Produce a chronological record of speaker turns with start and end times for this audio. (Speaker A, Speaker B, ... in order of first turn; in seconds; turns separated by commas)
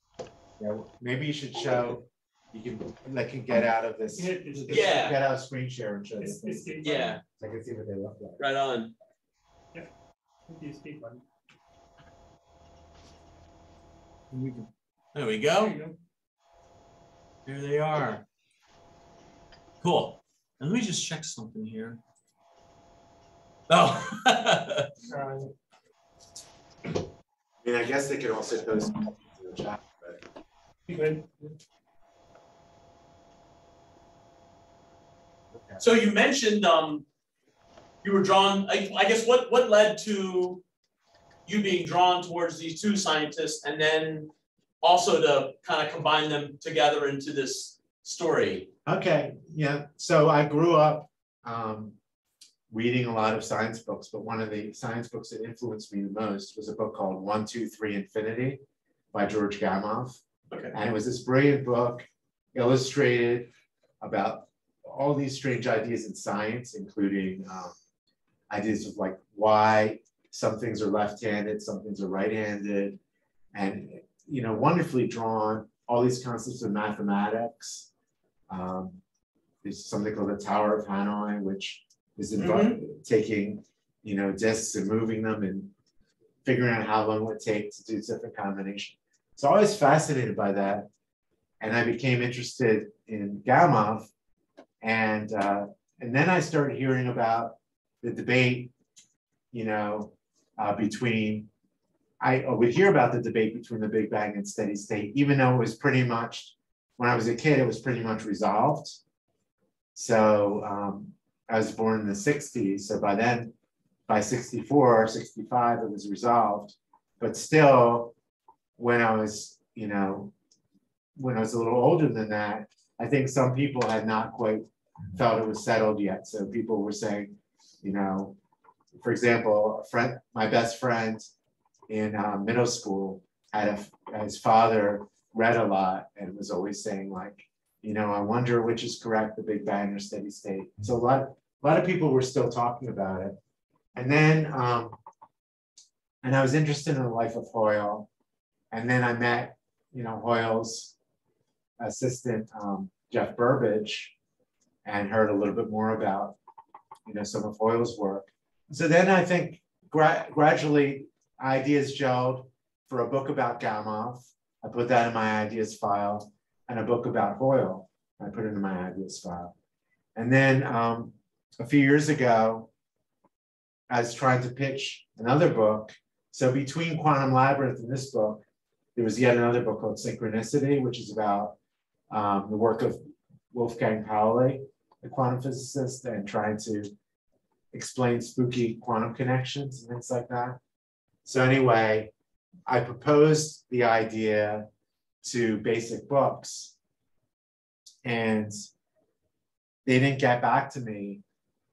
Speaker A: 0.6-8.4, Speaker B: 4.2-5.1, Speaker C: 4.7-5.2, Speaker B: 6.2-7.2, Speaker C: 6.8-7.2, Speaker C: 8.4-8.9, Speaker B: 10.5-11.2, Speaker C: 14.4-14.6, Speaker C: 15.1-15.8, Speaker B: 15.6-15.9, Speaker C: 17.5-18.2, Speaker C: 19.8-22.0, Speaker C: 23.7-24.9, Speaker B: 25.1-25.5, Speaker A: 27.6-30.2, Speaker B: 30.9-31.6, Speaker C: 35.8-37.0, Speaker C: 38.0-40.6, Speaker C: 41.5-44.3, Speaker C: 44.8-48.7, Speaker A: 48.9-52.0, Speaker A: 52.7-58.6, Speaker A: 59.1-60.2, Speaker A: 60.7-63.5, Speaker A: 64.0-67.8, Speaker A: 68.5-73.0, Speaker A: 73.5-77.9, Speaker A: 78.5-79.0, Speaker A: 79.6-85.7, Speaker C: 82.4-82.8, Speaker A: 86.5-90.9, Speaker A: 91.6-94.1, Speaker A: 94.8-98.7, Speaker A: 99.5-101.5, Speaker A: 102.2-109.0, Speaker A: 110.0-113.5, Speaker A: 114.1-118.1, Speaker A: 118.8-120.3, Speaker A: 121.2-128.3, Speaker A: 129.0-131.3, Speaker A: 131.9-143.4, Speaker A: 143.9-145.0, Speaker A: 146.2-148.1, Speaker A: 148.7-150.9, Speaker A: 151.8-154.1, Speaker A: 154.8-156.4, Speaker A: 157.1-169.5, Speaker A: 170.2-172.7, Speaker A: 173.9-178.4, Speaker A: 179.0-181.6, Speaker A: 182.1-186.9, Speaker A: 187.7-190.6, Speaker A: 191.2-192.1, Speaker A: 192.7-194.7, Speaker A: 195.2-196.8, Speaker A: 198.1-198.6, Speaker A: 199.9-201.2